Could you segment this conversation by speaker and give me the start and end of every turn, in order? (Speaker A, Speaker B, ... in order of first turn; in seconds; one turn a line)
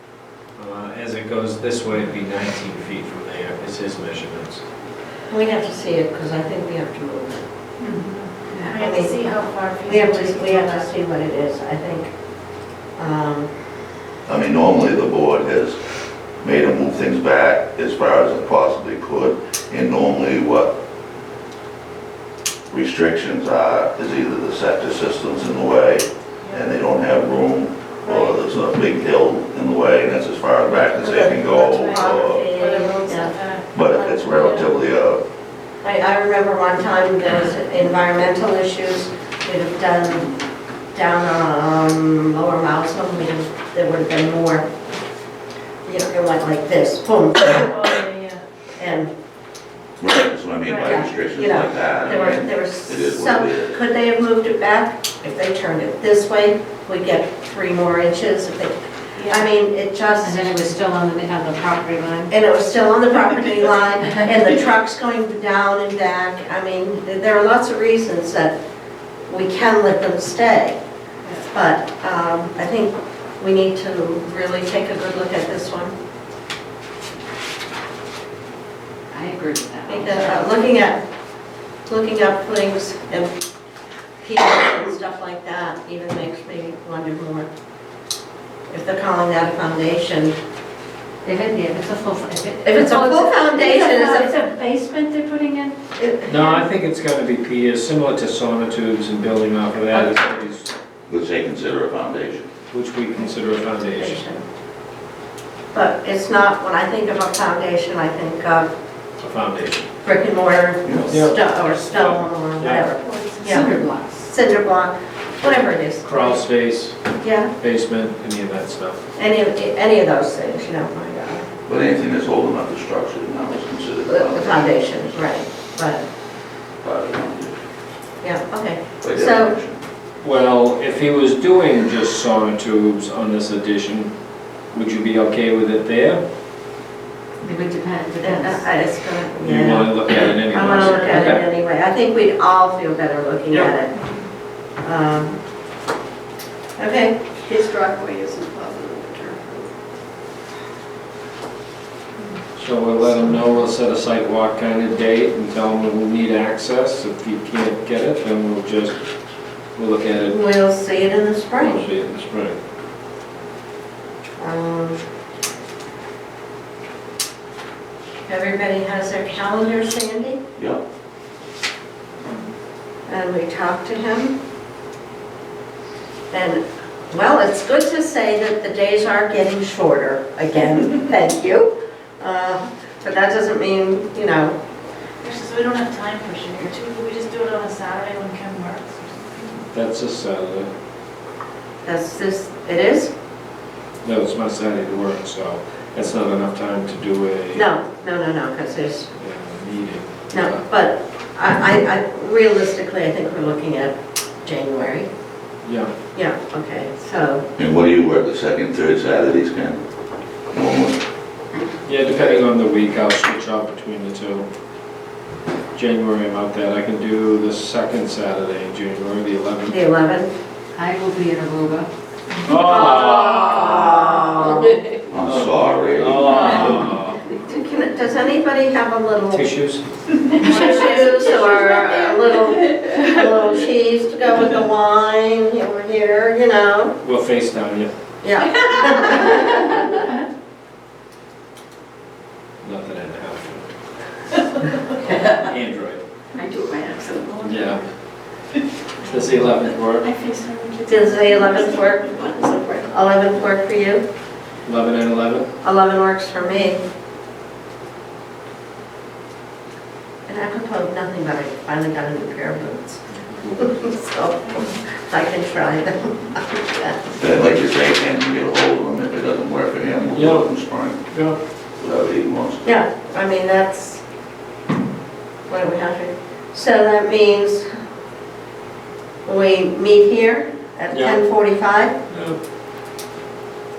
Speaker A: 0.6-4.6
Speaker B: 5.3-7.5
Speaker C: 7.8-10.9
Speaker D: 7.9-8.7
Speaker B: 8.8-9.2
Speaker B: 9.8-12.1
Speaker B: 13.0-13.5
Speaker E: 14.3-15.8
Speaker E: 16.4-20.7
Speaker E: 22.7-32.5
Speaker C: 26.4-26.7
Speaker C: 28.0-28.4
Speaker B: 31.0-33.4
Speaker C: 31.1-34.7
Speaker E: 33.7-35.2
Speaker B: 35.8-40.3
Speaker B: 40.9-44.7
Speaker B: 45.9-47.8
Speaker C: 47.5-48.4
Speaker B: 48.8-49.1
Speaker E: 50.0-53.8
Speaker B: 50.7-60.6
Speaker D: 60.2-62.3
Speaker B: 62.3-68.6
Speaker B: 69.3-70.8
Speaker B: 71.4-76.0
Speaker D: 79.1-80.8
Speaker B: 79.9-81.0
Speaker B: 81.9-83.3
Speaker B: 84.2-87.5
Speaker B: 88.7-90.4
Speaker D: 91.2-95.8
Speaker B: 92.6-94.4
Speaker B: 96.0-96.6
Speaker A: 96.3-100.7
Speaker E: 101.1-102.5
Speaker A: 102.7-104.2
Speaker B: 103.9-104.4
Speaker B: 105.7-108.7
Speaker A: 109.2-109.9
Speaker B: 110.0-116.4
Speaker E: 110.8-111.1
Speaker A: 111.1-112.8
Speaker D: 113.0-114.3
Speaker A: 115.4-117.0
Speaker B: 117.2-117.5
Speaker A: 117.6-119.0
Speaker B: 119.2-121.5
Speaker E: 121.7-124.7
Speaker B: 124.1-126.0
Speaker E: 126.8-127.6
Speaker B: 128.2-129.6
Speaker E: 129.0-129.8
Speaker A: 130.2-134.1
Speaker A: 134.7-136.2
Speaker D: 137.4-138.7
Speaker B: 138.2-143.9
Speaker A: 139.4-141.5
Speaker D: 140.9-141.4
Speaker B: 144.8-145.4
Speaker B: 146.8-147.2
Speaker F: 147.5-149.7
Speaker A: 152.6-159.0
Speaker A: 159.8-160.4
Speaker B: 160.3-161.8
Speaker A: 161.6-162.6
Speaker B: 164.4-165.0
Speaker B: 168.3-170.4
Speaker B: 173.1-174.4
Speaker B: 176.3-184.6
Speaker C: 185.2-189.6
Speaker A: 189.7-190.7
Speaker B: 191.8-193.1
Speaker A: 194.0-197.7
Speaker B: 197.5-199.1
Speaker A: 199.1-200.6
Speaker B: 200.3-205.1
Speaker A: 205.6-205.9
Speaker B: 206.1-207.5
Speaker E: 207.6-209.8
Speaker E: 210.5-211.0
Speaker A: 211.9-214.5
Speaker A: 215.8-219.8
Speaker B: 219.7-220.3
Speaker D: 220.8-221.9
Speaker A: 222.4-224.2
Speaker B: 222.5-224.7
Speaker E: 225.1-226.9
Speaker A: 225.2-227.2
Speaker B: 227.4-229.5
Speaker A: 229.3-229.8
Speaker B: 230.4-236.9
Speaker C: 230.4-231.8
Speaker A: 237.0-237.9
Speaker B: 238.2-239.9
Speaker A: 242.6-243.7
Speaker A: 245.0-246.0
Speaker D: 246.4-247.0
Speaker A: 247.4-247.8
Speaker A: 249.0-250.1
Speaker C: 250.0-252.3
Speaker B: 250.8-254.0
Speaker A: 254.7-255.5
Speaker B: 255.6-256.8
Speaker B: 260.3-267.2
Speaker E: 267.2-271.0
Speaker A: 270.1-270.5
Speaker A: 271.0-271.4
Speaker E: 271.8-272.7
Speaker B: 272.6-274.0
Speaker B: 275.5-277.7
Speaker B: 279.2-281.9
Speaker A: 280.9-281.2
Speaker A: 282.1-282.4